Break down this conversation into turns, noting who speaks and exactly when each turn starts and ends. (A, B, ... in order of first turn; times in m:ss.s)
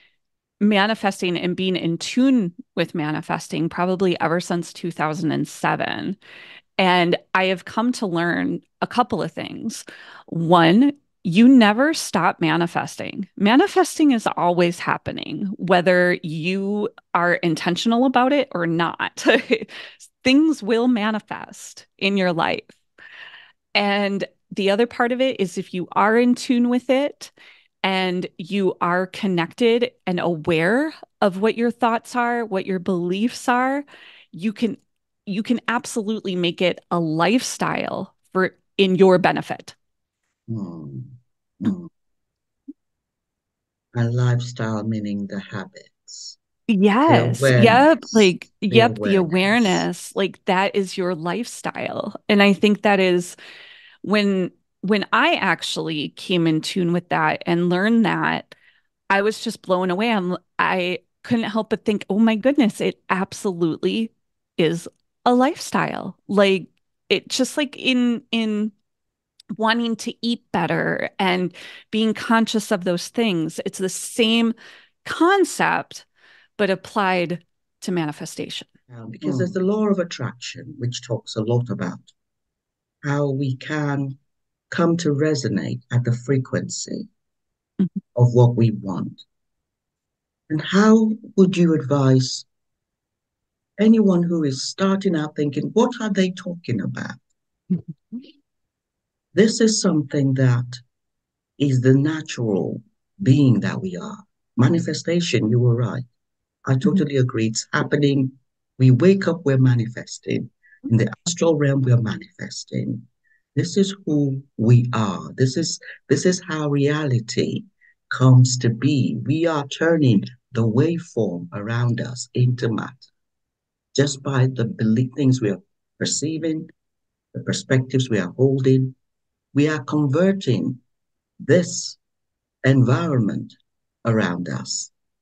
0:00.6-0:06.2 A
0:06.8-0:22.8 A
0:23.8-0:27.3 A
0:27.8-0:39.8 A
0:40.5-0:41.9 B
0:44.0-0:46.4 B
0:46.7-0:53.4 A
0:47.1-0:49.9 B
0:54.0-0:58.6 A
0:59.1-1:08.7 A
1:09.6-1:16.1 A
1:16.6-1:18.7 A
1:18.9-1:22.1 B
1:19.2-1:19.5 A
1:23.0-1:24.2 B
1:24.7-1:27.1 B
1:28.2-1:29.2 B
1:30.5-1:32.5 B
1:33.8-1:37.2 B
1:37.7-1:38.2 A
1:39.3-1:40.8 B
1:41.6-1:46.1 B
1:46.7-1:53.0 B
1:53.6-2:03.1 B
2:04.0-2:06.7 B
2:07.3-2:09.0 B
2:09.5-2:10.8 B
2:11.4-2:12.0 B
2:12.6-2:14.9 B